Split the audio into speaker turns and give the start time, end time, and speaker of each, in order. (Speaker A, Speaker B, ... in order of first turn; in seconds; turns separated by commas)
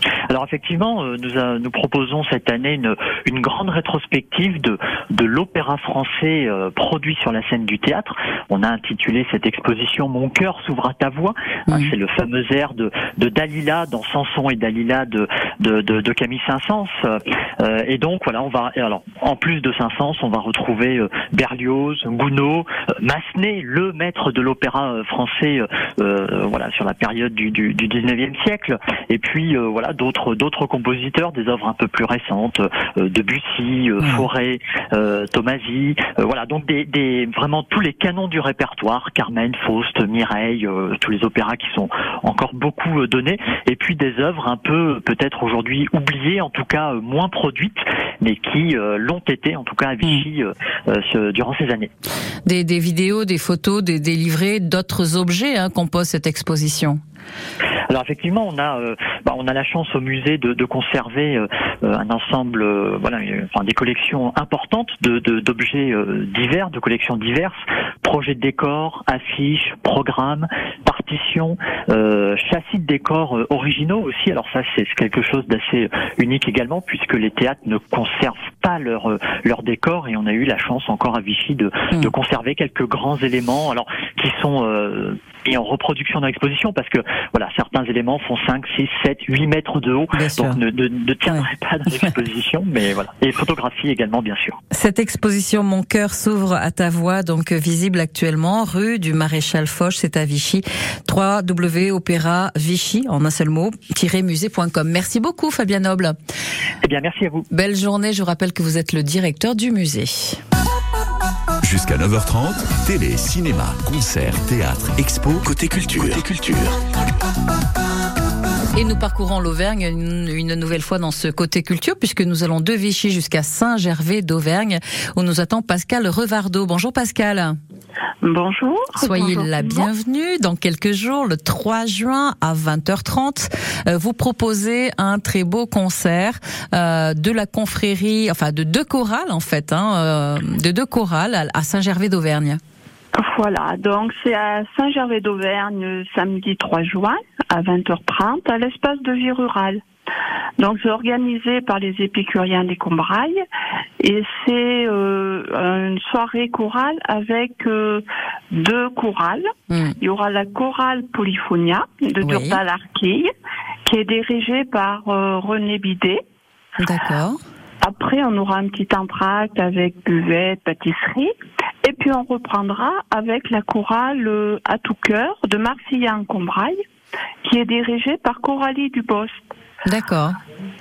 Speaker A: 0.3-51.9, Speaker B: 34.0-34.2, Speaker B: 52.5-57.0, Speaker A: 57.9-94.6, Speaker B: 90.1-90.6, Speaker B: 94.7-106.1, Speaker A: 106.8-107.5, Speaker B: 107.5-110.4, Speaker C: 111.6-116.8, Speaker B: 118.7-127.6, Speaker D: 128.2-129.9, Speaker B: 129.0-142.6, Speaker D: 143.1-149.8, Speaker D: 150.6-153.4, Speaker D: 154.0-158.0, Speaker D: 158.6-159.4, Speaker B: 159.7-160.0, Speaker D: 160.0-163.3, Speaker B: 162.2-162.6, Speaker D: 163.8-166.2, Speaker B: 166.8-167.4, Speaker D: 167.8-171.3, Speaker D: 171.8-176.8, Speaker D: 177.4-179.4, Speaker B: 179.9-180.3